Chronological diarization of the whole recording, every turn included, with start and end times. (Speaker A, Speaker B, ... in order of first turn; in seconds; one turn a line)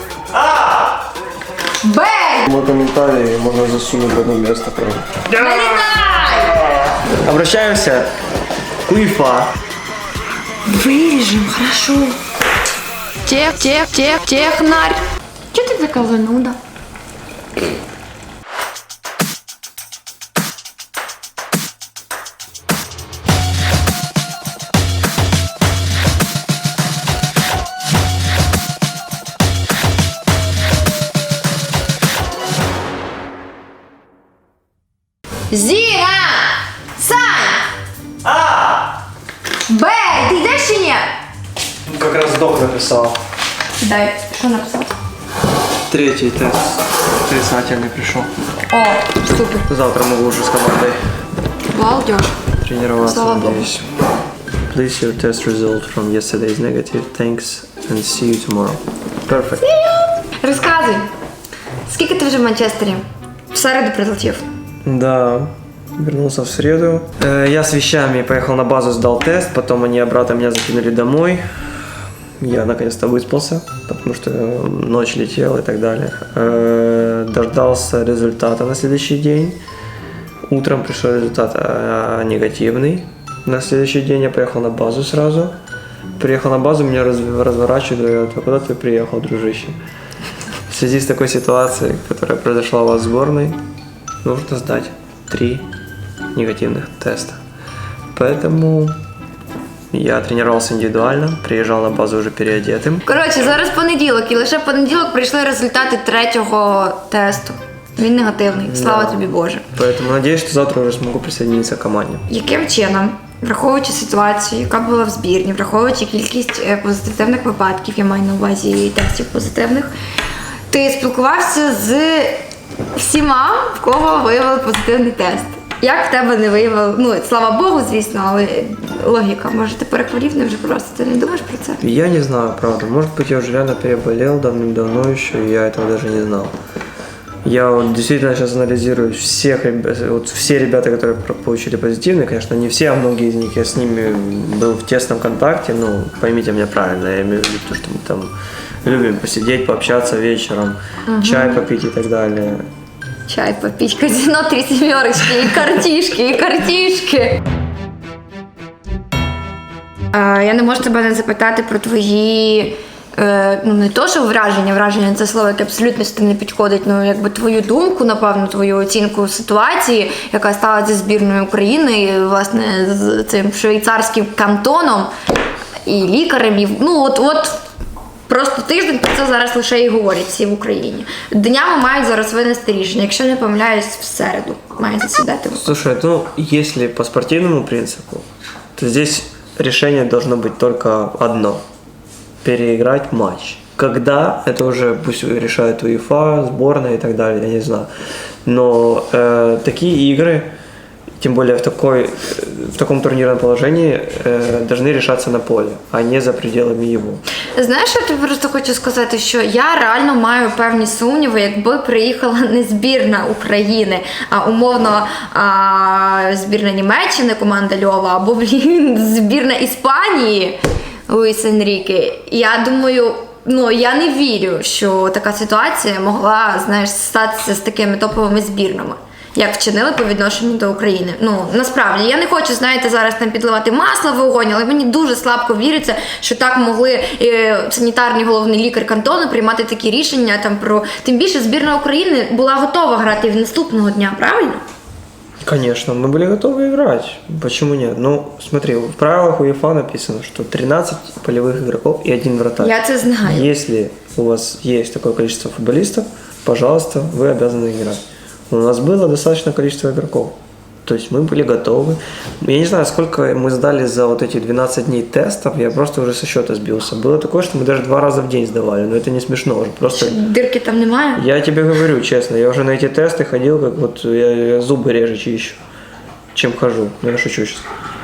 Speaker A: 0.3-0.9
Speaker B: 1.8-2.5
Speaker A: 2.4-5.6
Speaker B: 5.3-6.6
Speaker A: 7.1-8.1
Speaker A: 8.8-9.5
Speaker B: 10.6-12.2
Speaker B: 13.2-15.0
Speaker B: 15.5-16.6
Speaker B: 35.5-37.7
Speaker A: 38.2-38.9
Speaker B: 39.7-41.0
Speaker A: 41.9-43.2
Speaker B: 43.8-44.9
Speaker A: 45.9-48.3
Speaker B: 48.7-49.7
Speaker A: 49.7-51.0
Speaker B: 51.7-52.4
Speaker A: 52.6-53.9
Speaker B: 53.0-53.6
Speaker A: 54.7-59.6
Speaker B: 59.6-61.1
Speaker B: 61.9-64.5
Speaker A: 64.8-71.4
Speaker A: 72.4-79.6
Speaker A: 80.5-85.5
Speaker A: 86.2-89.8
Speaker A: 90.7-93.6
Speaker A: 94.2-95.7
Speaker A: 96.3-97.4
Speaker A: 98.1-99.0
Speaker A: 99.9-103.0
Speaker B: 103.0-109.7
Speaker A: 108.6-112.2
Speaker B: 112.3-119.9
Speaker B: 120.7-122.4
Speaker B: 123.0-131.8
Speaker A: 131.8-136.5
Speaker A: 137.4-148.3
Speaker A: 148.8-152.7
Speaker B: 151.1-151.6
Speaker B: 153.3-157.4
Speaker B: 160.1-175.1
Speaker B: 175.8-177.6
Speaker B: 178.3-185.8
Speaker A: 185.6-191.6
Speaker A: 192.4-197.9
Speaker A: 198.4-200.5
Speaker A: 201.2-207.2
Speaker B: 207.5-220.6
Speaker B: 221.1-244.6
Speaker A: 245.4-270.2
Speaker B: 252.6-253.5
Speaker B: 269.9-271.2
Speaker A: 271.1-275.6
Speaker A: 276.3-277.7